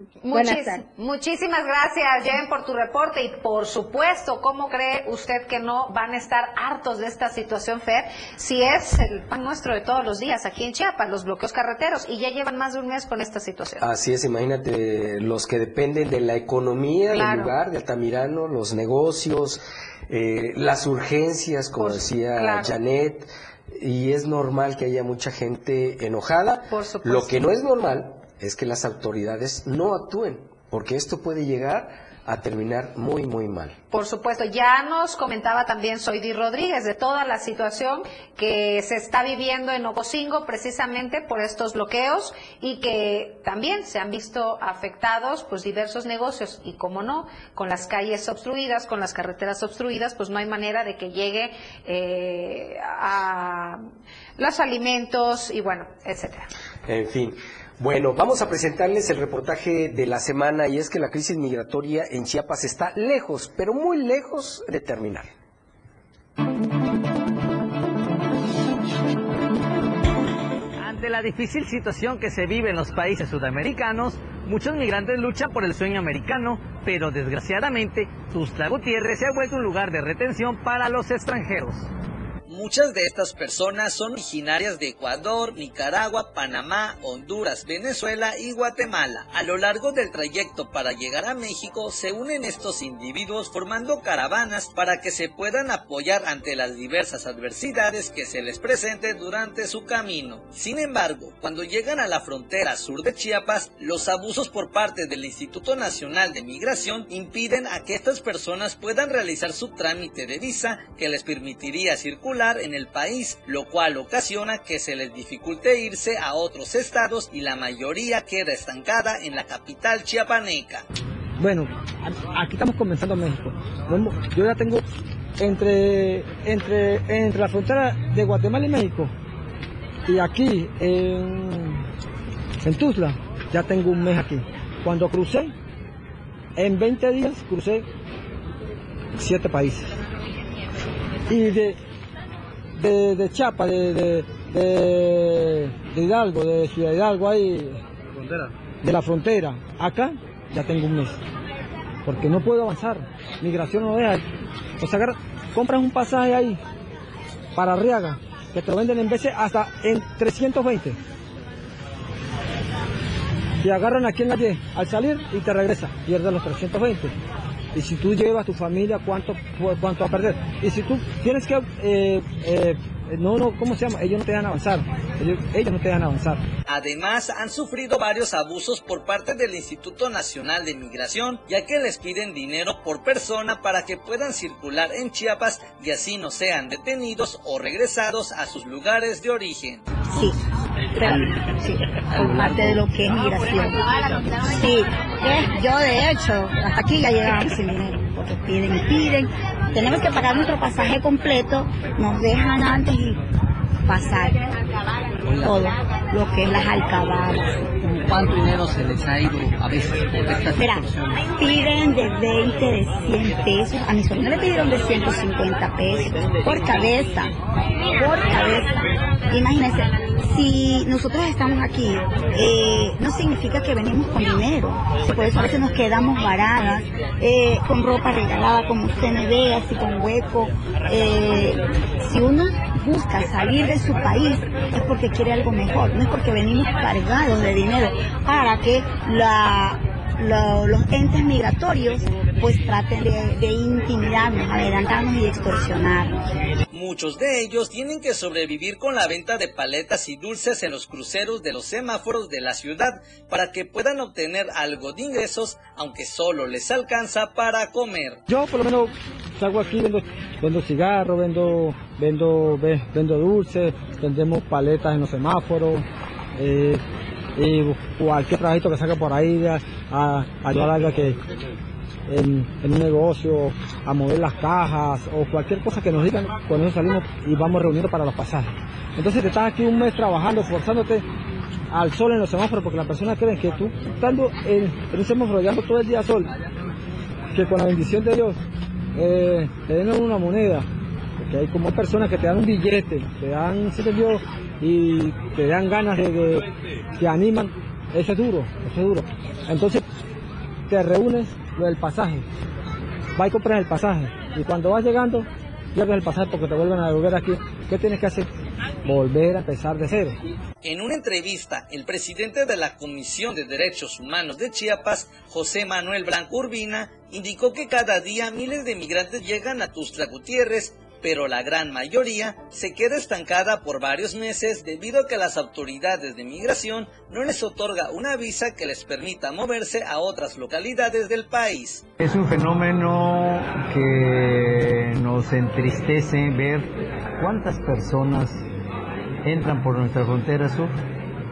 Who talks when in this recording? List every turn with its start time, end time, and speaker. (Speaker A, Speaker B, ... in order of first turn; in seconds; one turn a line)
Speaker A: 0.2-13.8
Speaker B: 13.8-33.8
Speaker A: 17.1-17.5
Speaker A: 21.8-22.7
Speaker A: 26.7-27.4
Speaker A: 33.9-53.8
Speaker A: 54.4-56.5
Speaker B: 56.9-65.3
Speaker C: 70.8-81.8
Speaker D: 82.5-120.8
Speaker E: 121.4-124.8
Speaker E: 125.4-129.1
Speaker E: 130.1-131.8
Speaker E: 132.6-135.5
Speaker E: 136.6-137.8
Speaker E: 139.2-139.9
Speaker E: 141.3-141.8
Speaker E: 142.7-151.2
Speaker E: 152.0-154.2
Speaker E: 154.8-156.6
Speaker E: 157.6-161.0
Speaker E: 163.6-167.1
Speaker E: 167.7-176.4
Speaker D: 176.7-189.8
Speaker F: 190.9-193.8
Speaker F: 194.5-203.2
Speaker F: 203.9-204.4
Speaker F: 205.3-207.5
Speaker F: 210.5-210.8
Speaker F: 211.3-217.3
Speaker F: 217.9-218.7
Speaker F: 219.3-246.2
Speaker D: 246.7-258.2
Speaker E: 258.3-265.8
Speaker E: 266.4-266.8
Speaker E: 267.4-271.2
Speaker E: 272.1-281.1
Speaker E: 281.7-286.3
Speaker E: 287.3-288.4
Speaker E: 288.9-290.7
Speaker E: 291.2-299.8
Speaker E: 300.7-302.2
Speaker E: 303.1-308.3
Speaker E: 308.8-310.1
Speaker D: 310.6-331.8
Speaker G: 332.0-338.4
Speaker G: 339.2-340.8